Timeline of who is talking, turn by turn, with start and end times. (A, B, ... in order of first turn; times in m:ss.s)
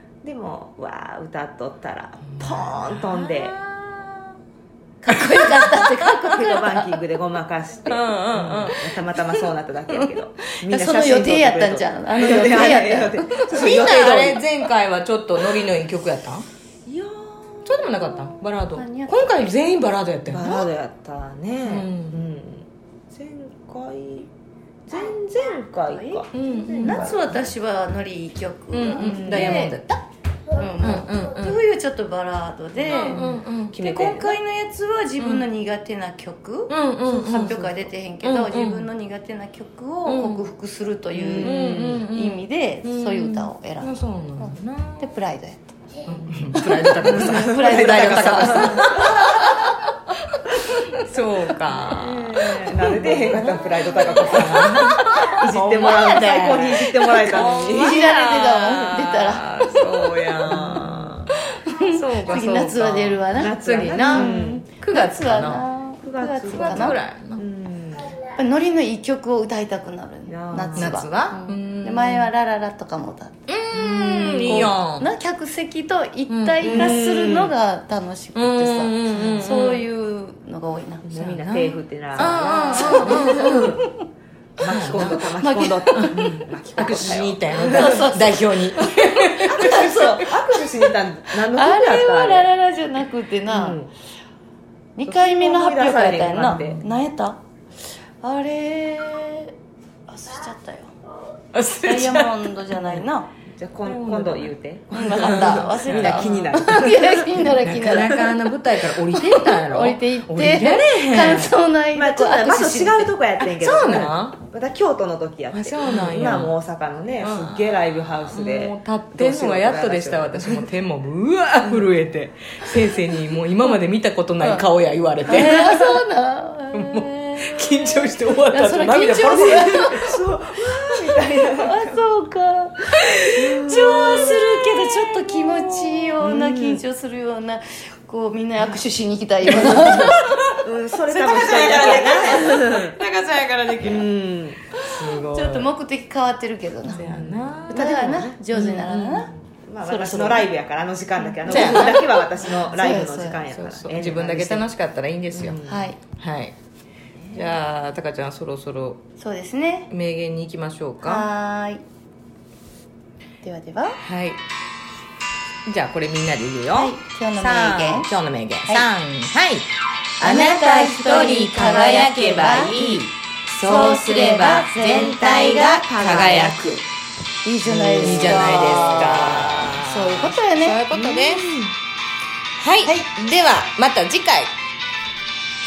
0:00.2-0:03.6 A
0:02.3-0:04.4 B
0:05.0-0:07.0 C
0:05.1-0:06.1 B
0:06.3-0:14.4 A
0:07.9-0:08.8 B
0:10.5-0:13.8 C
0:13.5-0:16.5 B
0:16.9-0:18.0 A
0:17.7-0:20.7 B
0:18.8-0:19.5 C
0:20.3-0:24.3 A
0:21.6-0:22.2 B
0:24.9-0:27.2 A
0:26.3-0:27.1 B
0:26.8-0:29.8 C
0:28.7-0:30.0 B
0:29.0-0:29.6 A
0:30.5-0:45.7 C
0:30.8-0:31.6 B
0:32.8-0:34.4 A
0:32.9-0:34.1 B
0:35.2-0:35.5 B
0:36.7-0:38.9 B
0:40.0-0:40.4 B
0:41.1-0:42.0 A
0:41.4-0:45.0 B
0:46.1-0:49.6 B
0:46.5-0:49.9 C
0:47.0-0:49.2 A
0:51.0-1:05.7 B
0:51.8-0:58.0 A
0:54.5-0:55.3 C
0:57.3-1:00.4 C
1:00.5-1:01.2 A
1:01.4-1:07.0 C
1:03.3-1:04.6 A
1:06.0-1:08.1 A
1:06.4-1:07.4 B
1:08.4-1:13.4 C
1:10.3-1:11.0 A
1:10.8-1:12.3 B
1:13.5-1:15.1 B
1:13.7-1:14.8 A
1:14.4-1:24.1 C
1:16.3-1:17.0 B
1:16.6-1:17.5 A
1:18.4-1:19.8 B
1:19.1-1:19.5 A
1:21.1-1:23.8 A
1:22.2-1:23.8 B
1:24.6-1:28.1 A
1:24.6-1:25.2 B
1:24.7-1:26.5 C
1:26.0-1:30.3 B
1:27.6-1:30.2 C
1:29.4-1:32.5 A
1:31.5-1:33.8 C
1:33.5-1:33.9 A
1:35.0-1:37.4 C
1:35.0-1:36.8 A
1:38.2-1:39.5 C
1:40.1-1:41.0 C
1:41.5-1:43.1 B
1:41.8-1:43.3 C
1:43.6-1:47.5 A
1:43.8-1:44.5 B
1:44.9-1:48.4 C
1:45.1-1:46.3 B
1:47.6-1:51.5 B
1:49.1-1:53.1 C
1:51.9-2:00.7 A
1:53.6-1:54.4 B
1:55.5-1:56.5 B
1:57.2-2:06.0 B
2:04.4-2:04.6 C
2:05.3-2:10.2 C
2:06.7-2:10.2 B
2:09.3-2:12.0 A
2:11.6-2:20.2 C
2:13.3-2:14.4 A
2:13.7-2:16.2 B
2:16.2-2:16.8 A
2:19.5-2:24.1 B
2:20.6-2:23.0 A
2:23.8-2:24.6 A
2:24.8-2:25.7 B
2:24.8-2:27.1 C
2:26.9-2:28.4 A
2:26.9-2:29.2 B
2:27.7-2:29.3 C
2:29.7-2:34.7 A
2:29.8-2:30.5 C
2:31.2-2:33.4 C
2:31.5-2:32.1 B
2:33.5-2:35.6 B
2:35.3-2:35.9 A
2:35.7-2:36.0 C
2:36.2-2:36.6 B
2:37.2-2:37.5 A
2:37.3-2:39.0 B
2:39.2-2:39.9 C
2:39.9-2:41.3 B
2:41.0-2:41.8 C
2:43.4-2:44.0 C
2:44.0-2:44.4 B
2:45.7-2:49.7 B
2:46.8-2:48.1 C
2:50.2-2:56.8 B
2:50.2-2:52.8 C
2:51.6-2:52.1 A
2:53.6-2:55.8 C
2:53.6-2:56.8 A
2:57.4-3:00.8 C
2:57.7-3:01.5 B
2:57.9-2:59.2 A
3:00.9-3:01.7 A
3:02.6-3:04.5 B
3:02.8-3:03.1 C